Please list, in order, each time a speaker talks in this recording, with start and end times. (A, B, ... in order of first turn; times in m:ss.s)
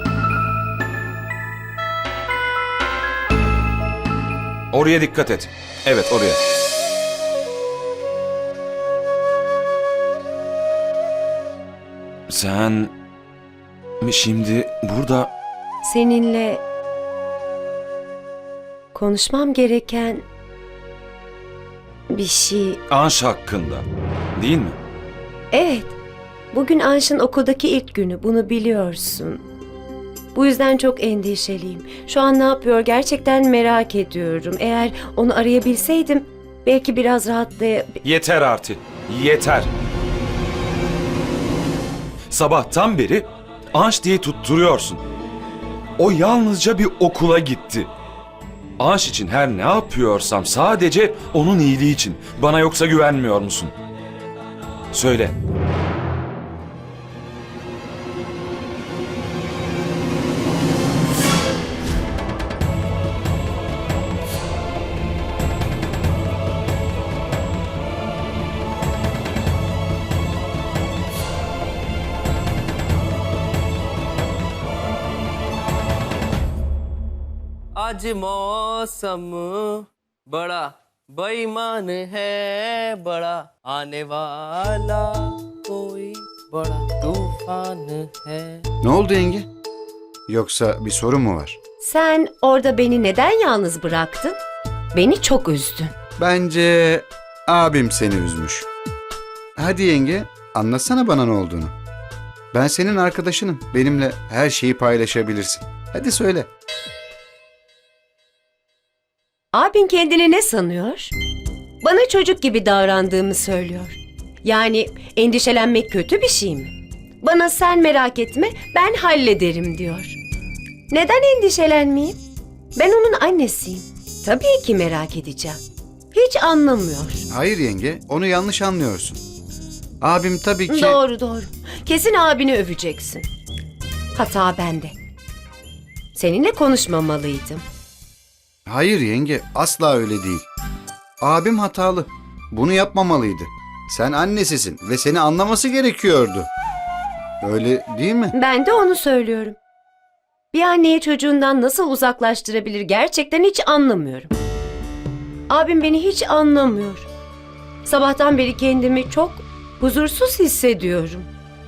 0:04.7-0:06.4 A
0:12.3-0:12.9 A
0:14.0-0:15.3 A
0:15.8-0:16.6 B
0:18.9-0:20.2 B
0:22.1-0:22.8 B
0:22.9-0:23.8 A
0:24.4-0:24.8 A
0:25.5-0:26.0 B
0:26.5-0:29.4 B
0:30.4-0:38.0 B
0:38.0-0:39.7 A
0:42.3-0:45.0 A
0:46.0-0:47.9 A
0:48.8-0:53.7 A
0:54.9-0:55.4 A
1:17.8-1:28.7 C
1:28.8-1:29.5 D
1:30.3-1:31.6 D
1:31.8-1:34.4 B
1:34.9-1:35.9 B
1:36.2-1:38.7 D
1:39.6-1:41.7 D
1:42.5-1:46.5 D
1:49.5-1:51.1 B
1:51.8-2:00.2 B
2:00.9-2:02.2 B
2:02.8-2:05.6 B
2:06.1-2:07.2 B
2:07.3-2:09.2 D
2:10.0-2:11.0 D
2:10.7-2:13.2 B
2:14.2-2:14.9 B
2:16.2-2:17.6 B
2:18.7-2:20.4 D
2:21.2-2:26.5 D
2:27.4-2:28.4 D
2:28.3-2:29.6 B
2:30.5-2:34.3 B
2:35.5-2:37.1 B
2:37.9-2:41.3 B